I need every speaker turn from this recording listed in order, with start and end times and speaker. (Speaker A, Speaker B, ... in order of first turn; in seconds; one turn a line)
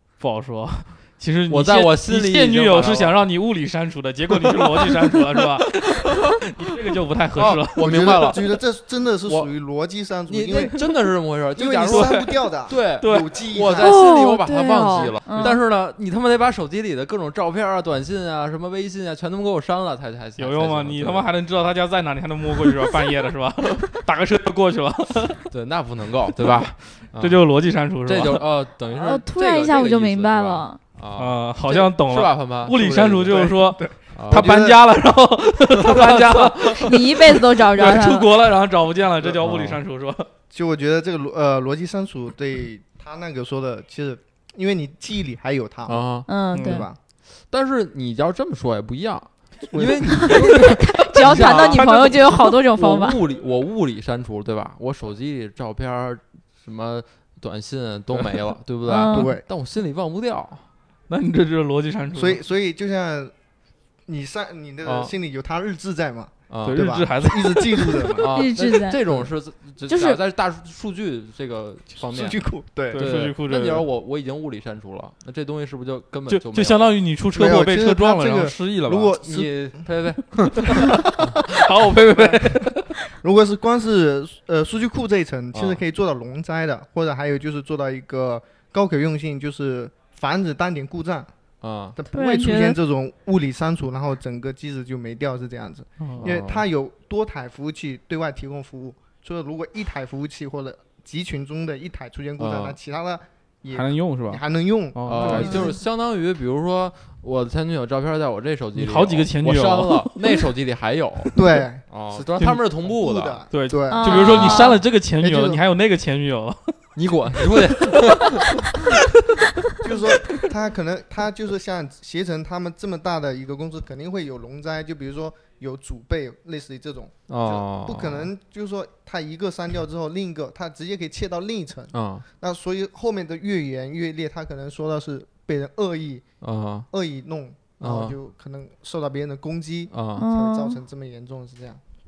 Speaker A: 0.2-8.2
Speaker B: 1.5-3.1
Speaker B: 7.3-9.5
Speaker C: 7.8-10.8
Speaker B: 10.3-21.3
Speaker C: 11.5-14.0
Speaker A: 11.9-13.4
Speaker D: 13.8-15.6
Speaker A: 20.4-25.4
Speaker B: 25.5-27.4
Speaker A: 27.2-28.4
Speaker B: 28.0-33.5
Speaker D: 28.9-30.8
Speaker A: 31.2-37.2
Speaker C: 33.3-34.0
Speaker B: 34.1-34.9
Speaker B: 35.8-36.7
Speaker D: 36.8-38.3
Speaker A: 37.8-40.3
Speaker B: 39.4-39.8
Speaker C: 40.5-46.1
Speaker B: 45.9-46.3
Speaker D: 46.3-46.9
Speaker A: 46.5-46.9
Speaker C: 46.6-47.0
Speaker B: 47.5-60.7
Speaker C: 49.7-50.6
Speaker D: 50.4-53.2
Speaker A: 51.5-52.6
Speaker D: 58.9-59.3
Speaker C: 59.0-59.4
Speaker A: 61.1-62.4
Speaker C: 62.1-63.3
Speaker C: 64.1-68.3
Speaker B: 64.8-65.1
Speaker B: 66.5-66.8
Speaker A: 66.7-68.3
Speaker B: 68.2-77.0
Speaker D: 68.3-69.0
Speaker D: 69.9-70.2
Speaker C: 72.0-73.1
Speaker A: 72.9-73.9
Speaker A: 76.3-79.1
Speaker C: 77.3-79.9
Speaker B: 79.2-81.4
Speaker A: 81.5-82.9
Speaker C: 83.2-91.3
Speaker B: 85.5-85.8
Speaker B: 91.6-92.0
Speaker C: 92.0-105.7
Speaker D: 92.1-92.8
Speaker A: 96.0-96.3
Speaker B: 96.2-96.7
Speaker B: 102.4-102.8
Speaker A: 103.7-105.7
Speaker B: 105.1-113.5
Speaker D: 105.5-105.8
Speaker A: 108.8-110.2
Speaker C: 111.3-115.6
Speaker A: 113.5-116.8
Speaker D: 113.9-114.8
Speaker B: 114.1-114.6
Speaker B: 117.0-118.6
Speaker A: 117.6-118.0
Speaker C: 119.8-136.2
Speaker B: 127.3-128.3
Speaker B: 131.9-132.2
Speaker B: 136.4-136.9
Speaker C: 136.9-141.8
Speaker B: 137.8-138.2
Speaker B: 139.9-140.2
Speaker D: 140.2-140.8